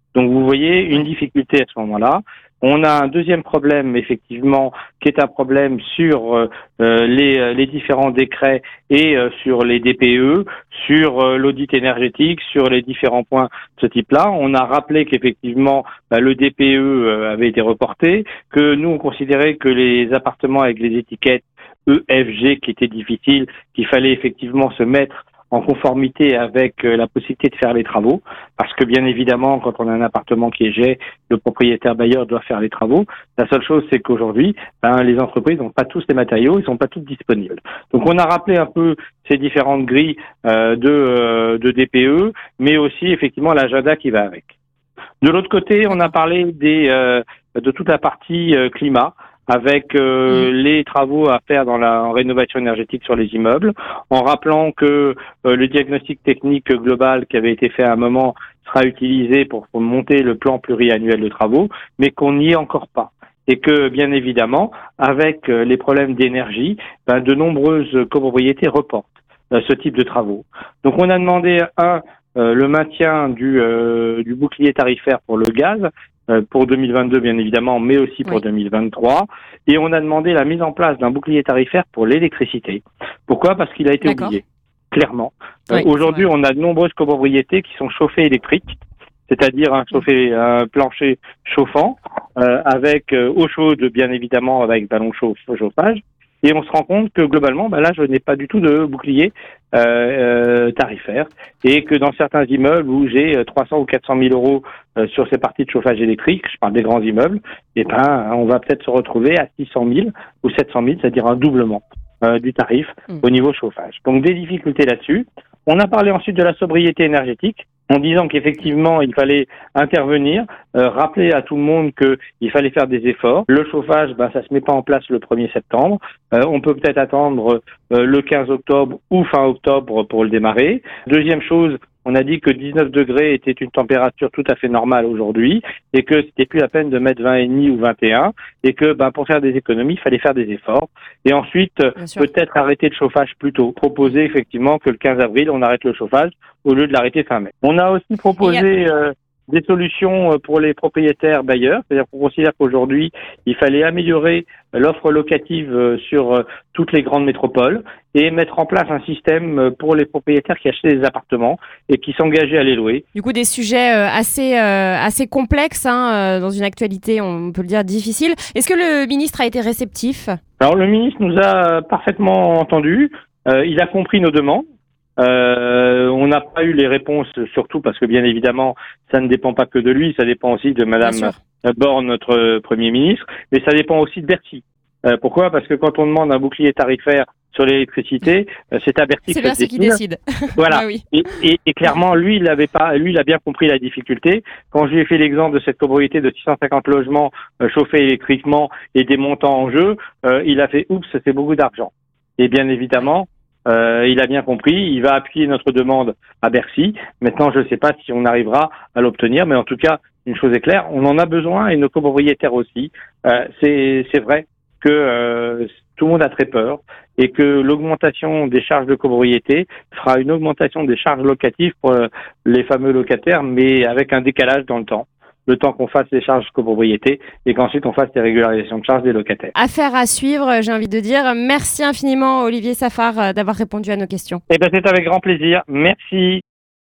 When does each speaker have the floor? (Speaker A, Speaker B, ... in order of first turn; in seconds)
Speaker A: 0.1-44.5, 45.2-84.4, 84.9-163.1, 170.6-174.6, 175.2-190.0, 190.6-229.5, 234.5-236.4
Speaker B: 84.0-84.4, 85.7-86.3, 142.0-142.3, 148.4-148.7, 163.2-170.4, 181.0-181.4, 189.3-191.1, 229.6-234.4